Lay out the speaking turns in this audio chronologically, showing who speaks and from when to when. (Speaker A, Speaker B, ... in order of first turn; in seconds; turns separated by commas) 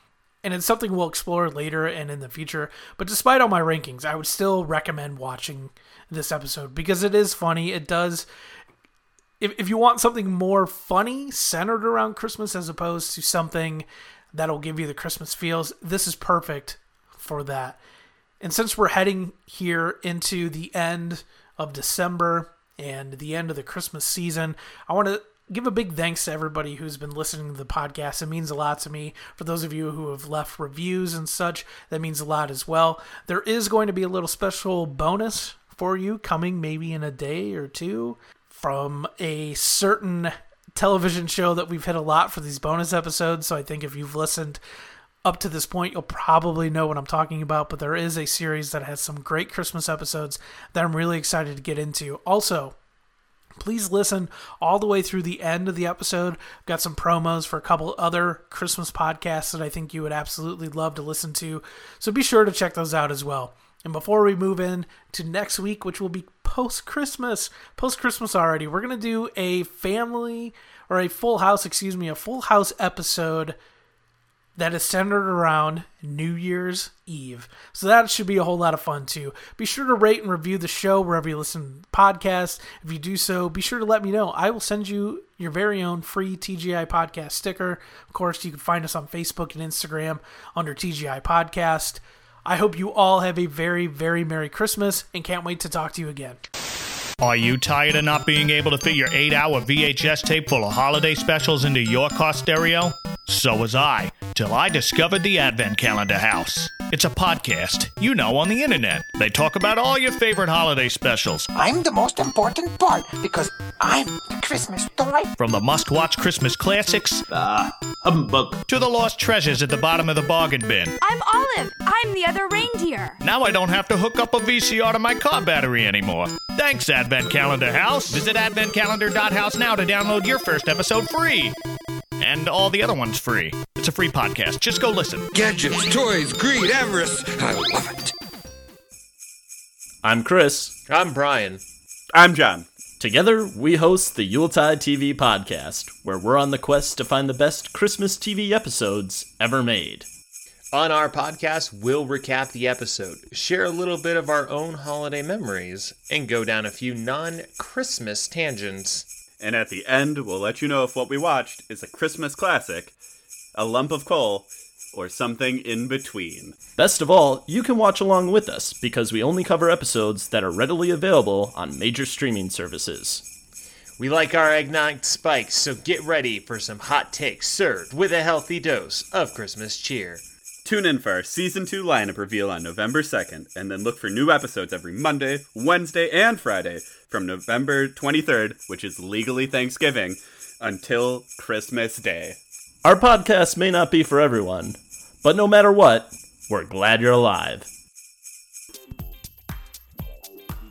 Speaker A: 0.4-8.3, Speaker A: 9.4-17.8, Speaker A: 18.4-44.6, Speaker A: 45.2-52.7, Speaker A: 53.6-73.5, Speaker A: 74.5-96.4, Speaker B: 97.2-111.5, Speaker C: 111.5-115.3, Speaker B: 115.4-117.2, Speaker B: 118.7-120.9, Speaker D: 121.0-123.2, Speaker B: 123.2-131.6, Speaker B: 132.2-135.3, Speaker E: 135.3-138.1, Speaker F: 140.0-140.8, Speaker G: 140.9-141.6, Speaker H: 142.1-142.7, Speaker F: 143.0-150.1, Speaker G: 150.7-159.1, Speaker H: 159.4-162.9, Speaker H: 163.6-166.5, Speaker F: 166.8-173.3, Speaker G: 174.0-180.2, Speaker H: 180.6-192.4, Speaker F: 192.8-197.7